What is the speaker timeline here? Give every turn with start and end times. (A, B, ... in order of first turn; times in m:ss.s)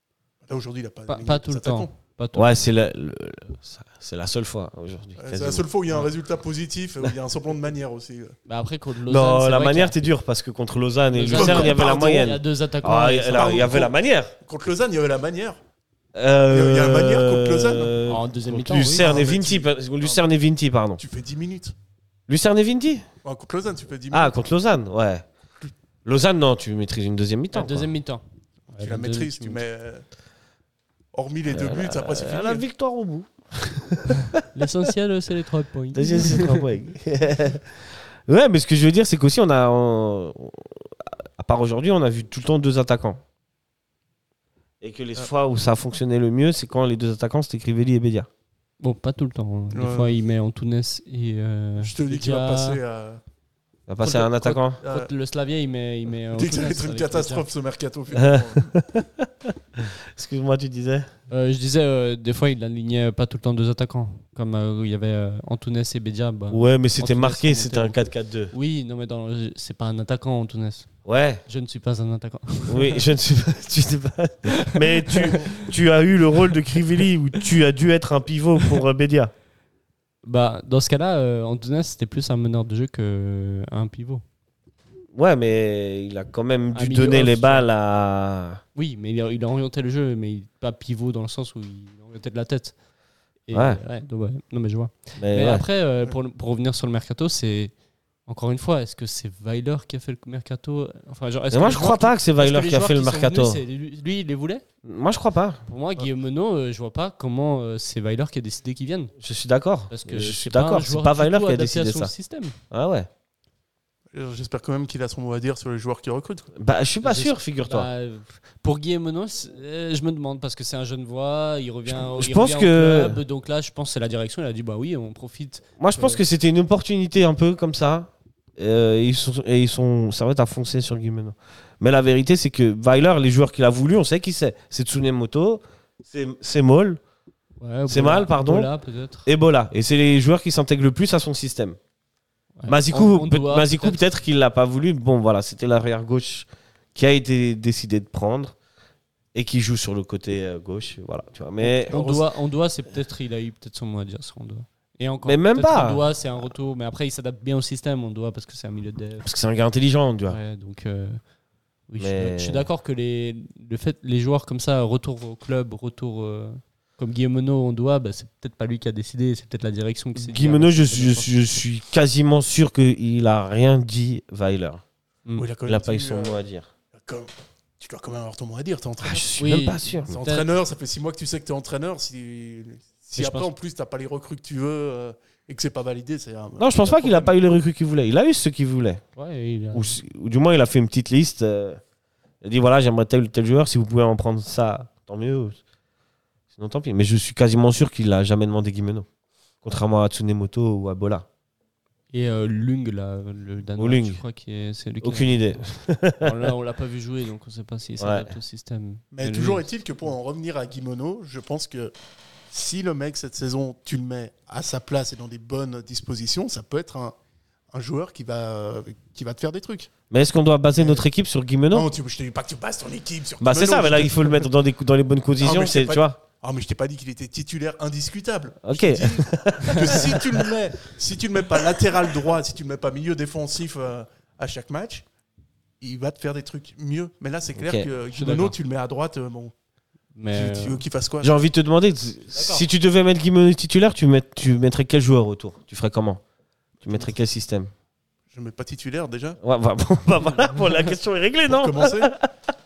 0:00.5-0:01.9 A
0:01.1-0:02.7 B
0:02.4-0:05.7 C
0:05.2-0:08.4 A
0:08.5-0:10.0 B
0:09.1-0:14.3 C
0:11.1-0:13.7 B
0:11.3-0:12.3 A
0:13.3-0:15.6 A
0:16.1-0:21.0 C
0:16.5-0:18.0 A
0:18.1-0:19.1 B
0:19.0-0:20.2 A
0:21.0-0:21.7 A
0:22.3-0:23.1 C
0:23.2-0:24.4 A
0:24.1-0:25.3 C
0:26.0-0:27.9 C
0:27.5-0:29.6 B
0:28.8-0:30.0 A
0:31.1-0:32.6 A
0:31.5-0:34.4 C
0:34.5-0:36.6 B
0:35.9-0:43.2 C
0:44.8-0:48.3 C
0:48.8-0:52.8 B
0:49.7-0:50.2 A
0:51.8-0:53.2 A
0:53.9-0:54.8 C
0:54.0-0:55.1 A
0:54.4-0:57.4 B
0:56.4-0:58.7 A
0:58.2-1:01.1 C
1:01.3-1:08.0 B
1:06.5-1:08.5 C
1:08.5-1:10.9 B
1:11.0-1:11.4 C
1:11.5-1:13.0 B
1:12.7-1:19.3 C
1:14.6-1:15.6 B
1:20.2-1:24.2 B
1:25.2-1:28.6 C
1:26.7-1:27.7 B
1:28.8-1:32.8 B
1:33.5-1:37.7 B
1:33.5-1:33.8 C
1:35.2-1:35.6 C
1:38.3-1:44.6 B
1:41.5-1:43.6 C
1:44.8-1:45.6 C
1:45.7-1:49.1 B
1:49.2-1:52.1 C
1:49.9-1:52.6 B
1:52.7-1:53.1 C
1:54.1-1:56.5 A
1:56.6-1:57.9 C
1:57.0-2:06.2 B
2:01.9-2:03.2 C
2:05.8-2:17.0 C
2:17.6-2:19.3 B
2:17.9-2:18.7 C
2:19.3-2:21.8 C
2:22.6-2:24.0 B
2:22.7-2:28.6 C
2:29.3-2:32.1 C
2:31.6-2:39.3 B
2:35.2-2:36.0 C
2:39.2-2:40.4 C
2:40.3-2:41.2 B
2:41.9-2:51.3 B
2:42.0-2:42.7 C
2:50.2-2:54.8 C
2:55.4-2:56.4 A
2:55.7-2:56.7 C
2:57.0-2:59.3 A
2:59.0-3:00.2 C
2:59.4-3:00.5 B
3:00.1-3:07.4 A
3:03.2-3:03.5 B
3:06.6-3:09.0 C
3:09.2-3:09.9 B
3:09.7-3:11.8 C
3:12.4-3:15.6 C
3:16.5-3:19.1 C
3:19.6-3:21.3 C
3:22.1-3:25.6 B
3:23.8-3:24.2 C
3:25.0-3:26.5 C
3:26.2-3:29.7 B
3:28.0-3:28.3 C
3:29.1-3:31.9 A
3:32.5-3:37.2 A
3:37.7-3:39.9 A
3:40.1-3:41.9 C
3:40.8-3:41.1 A
3:41.7-3:44.5 A
3:43.4-3:46.2 C
3:45.4-3:55.0 A
3:48.6-3:50.5 C
3:55.8-3:59.5 A
3:57.6-3:57.9 C
3:58.2-3:58.6 B
4:00.2-4:00.8 B
4:00.3-4:01.4 A
4:01.2-4:06.2 C
4:06.8-4:07.7 C
4:08.3-4:09.4 A
4:09.4-4:12.3 C
4:11.5-4:12.2 A